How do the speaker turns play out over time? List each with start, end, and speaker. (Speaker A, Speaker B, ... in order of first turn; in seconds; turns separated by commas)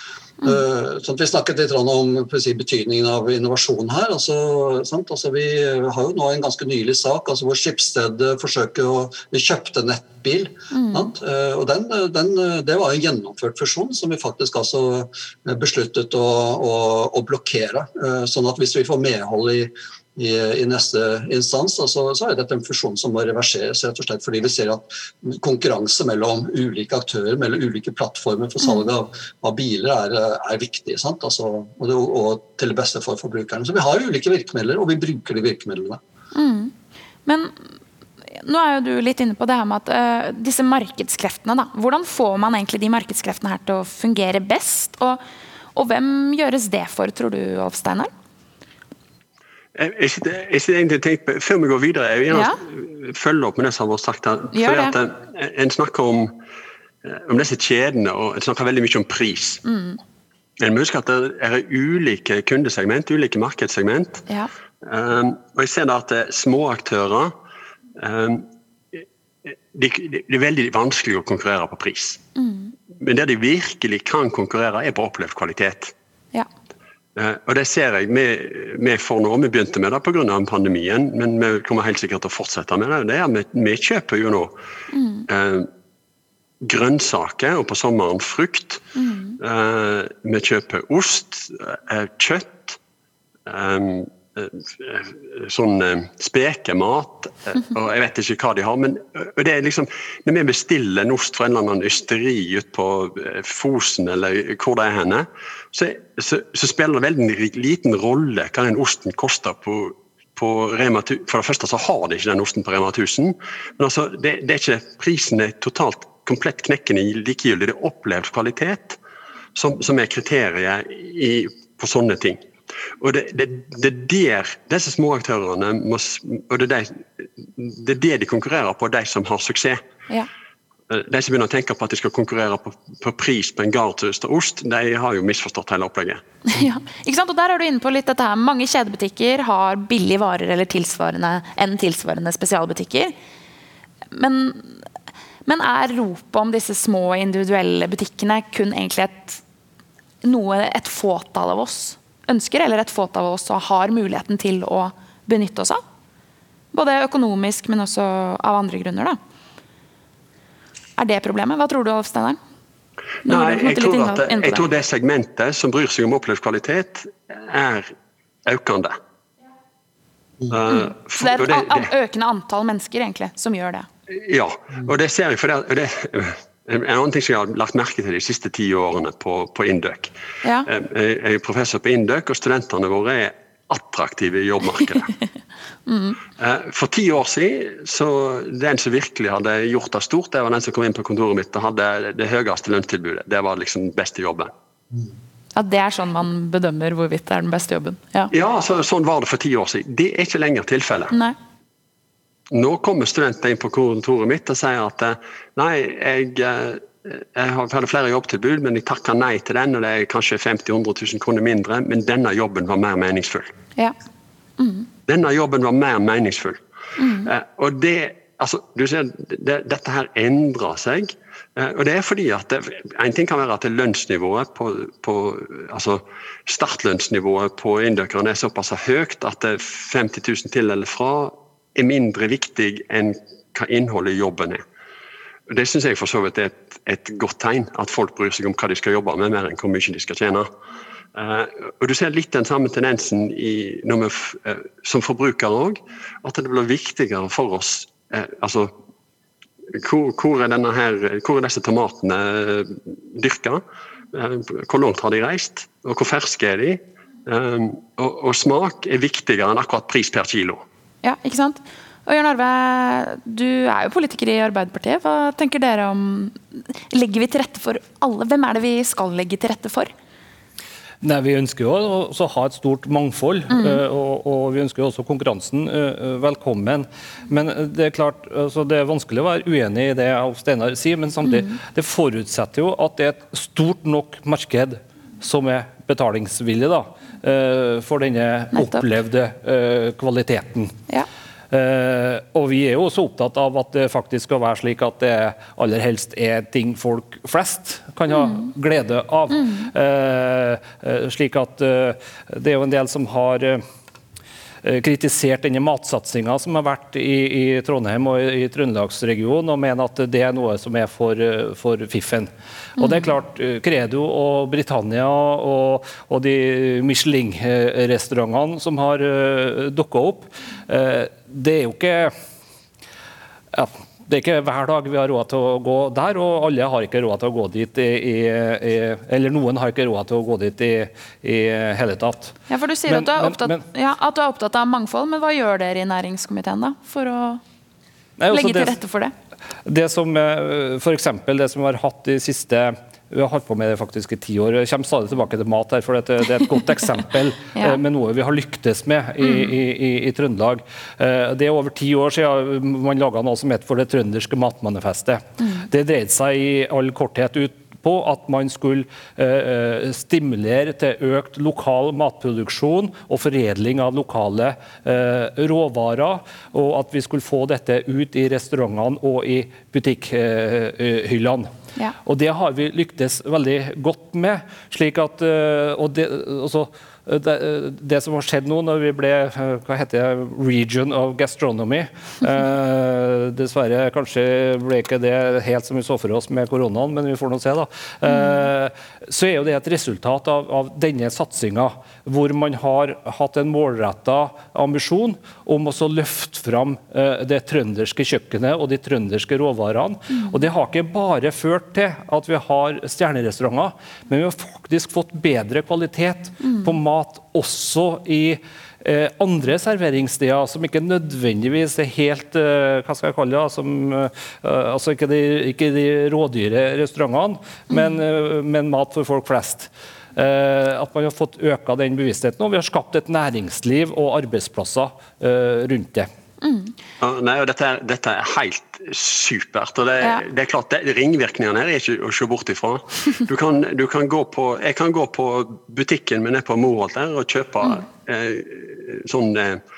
Speaker A: 0.4-36.0, Speaker B: 10.7-11.1, Speaker B: 36.4-36.7, Speaker B: 37.3-37.5, Speaker B: 38.3-45.2, Speaker B: 45.8-48.1, Speaker C: 49.8-56.3, Speaker B: 52.3-52.5, Speaker B: 54.5-54.9, Speaker C: 57.0-59.6, Speaker B: 59.6-60.0, Speaker C: 60.6-64.2, Speaker C: 64.8-67.3, Speaker C: 68.0-72.2, Speaker B: 72.4-72.7, Speaker C: 73.0-75.9, Speaker C: 77.2-84.5, Speaker B: 84.9-85.3, Speaker C: 85.3-85.7, Speaker C: 86.6-88.8, Speaker B: 89.0-89.4, Speaker C: 89.4-92.8, Speaker C: 93.5-119.0, Speaker C: 119.6-122.4, Speaker C: 123.0-129.8, Speaker C: 130.9-136.2, Speaker B: 136.5-143.1, Speaker B: 144.1-144.8, Speaker B: 145.5-149.4, Speaker B: 150.2-155.8, Speaker B: 156.7-159.2, Speaker B: 161.0-162.4, Speaker C: 163.2-167.9, Speaker B: 163.3-164.7, Speaker C: 168.4-169.0, Speaker C: 170.5-171.9, Speaker B: 170.7-173.9, Speaker C: 174.1-180.1, Speaker B: 180.4-180.7, Speaker C: 180.7-185.1, Speaker B: 185.9-186.2, Speaker C: 186.4-194.5, Speaker B: 195.6-198.3, Speaker C: 198.3-201.2, Speaker C: 202.5-213.5, Speaker B: 214.6-214.9, Speaker C: 215.1-216.6, Speaker B: 217.0-217.3, Speaker C: 217.2-234.6, Speaker C: 235.5-240.5, Speaker C: 241.2-248.7, Speaker C: 249.7-253.6, Speaker C: 254.1-260.6, Speaker B: 261.0-269.9, Speaker D: 271.0-290.8, Speaker B: 281.2-281.5, Speaker B: 288.6-288.8, Speaker D: 291.5-303.6, Speaker B: 298.1-298.4, Speaker D: 304.6-322.1, Speaker D: 323.5-332.4, Speaker B: 332.5-337.4, Speaker D: 332.9-333.6, Speaker D: 338.2-338.8, Speaker B: 338.3-339.1, Speaker D: 339.6-371.5, Speaker B: 349.2-349.5, Speaker D: 372.0-426.1, Speaker B: 400.1-400.4, Speaker B: 426.4-426.7, Speaker C: 427.0-439.6